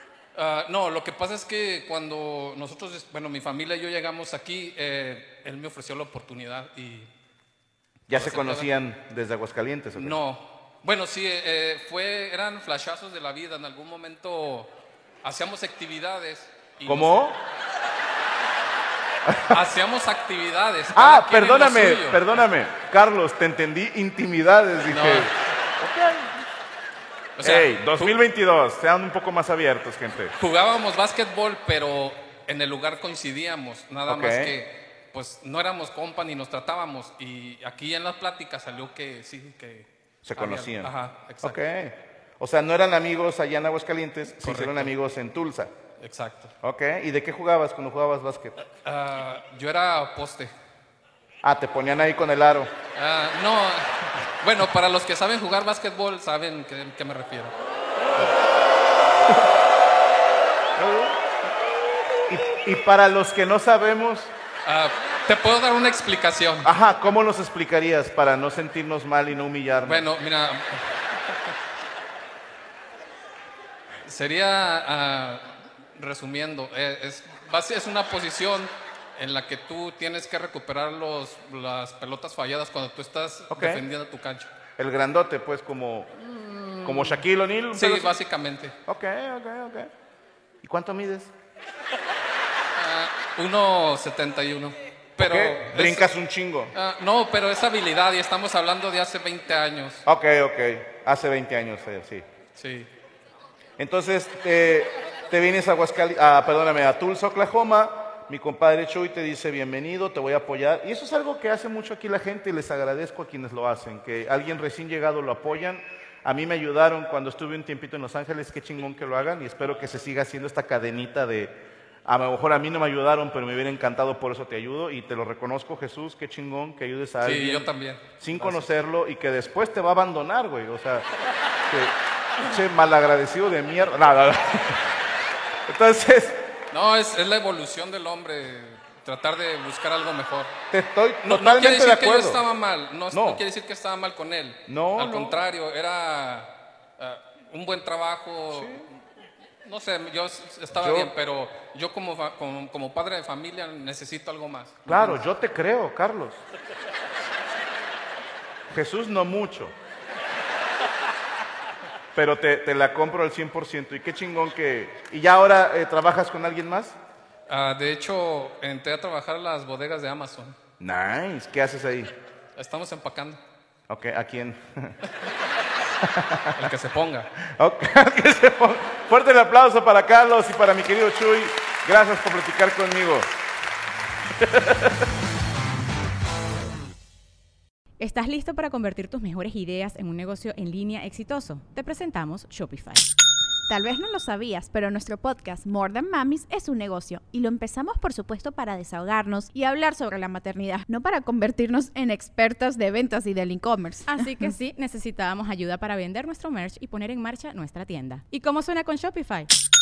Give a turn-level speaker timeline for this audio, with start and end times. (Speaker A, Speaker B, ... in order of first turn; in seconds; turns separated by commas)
Speaker A: 0.3-7.1, Speaker B: 8.1-10.2, Speaker A: 8.1-8.7, Speaker A: 9.9-14.7, Speaker A: 15.2-17.3, Speaker B: 16.9-17.4, Speaker B: 19.2-19.6, Speaker A: 19.5-22.4, Speaker B: 20.9-26.3, Speaker A: 24.9-25.3, Speaker A: 27.4-28.1, Speaker B: 27.4-30.3, Speaker A: 30.4-41.6, Speaker B: 34.1-34.5, Speaker B: 40.2-45.7, Speaker A: 44.4-44.9, Speaker A: 46.0-46.5, Speaker B: 46.6-48.6, Speaker A: 48.8-50.5, Speaker B: 51.4-52.7, Speaker A: 52.9-57.5, Speaker B: 60.8-61.2, Speaker B: 62.3-64.3, Speaker A: 64.6-66.7, Speaker B: 66.6-70.0, Speaker A: 69.8-71.0, Speaker A: 74.0-84.5, Speaker B: 83.5-83.8, Speaker B: 84.8-86.1, Speaker A: 86.2-87.2, Speaker B: 86.8-88.1, Speaker A: 87.7-88.7, Speaker B: 88.8-89.9, Speaker B: 90.6-91.3, Speaker A: 92.8-96.1, Speaker B: 95.2-96.7, Speaker A: 96.7-100.0, Speaker B: 100.0-102.2, Speaker A: 102.5-102.9, Speaker B: 103.8-131.1, Speaker A: 127.2-128.1, Speaker B: 131.7-135.0, Speaker B: 135.7-136.4, Speaker A: 136.7-140.5, Speaker B: 140.7-142.4, Speaker A: 141.3-148.9, Speaker B: 143.1-143.4, Speaker B: 144.7-145.4, Speaker B: 148.5-148.8, Speaker A: 149.6-155.2, Speaker B: 150.8-151.1, Speaker B: 154.9-156.4, Speaker B: 158.7-159.7, Speaker B: 162.1-166.9, Speaker A: 167.5-170.6, Speaker B: 170.8-172.1, Speaker A: 172.6-173.4, Speaker B: 173.9-174.9, Speaker B: 176.0-176.6, Speaker A: 176.6-177.3, Speaker B: 177.4-183.3, Speaker B: 184.3-185.1, Speaker C: 188.0-193.0, Speaker D: 193.7-204.2, Speaker C: 204.1-209.5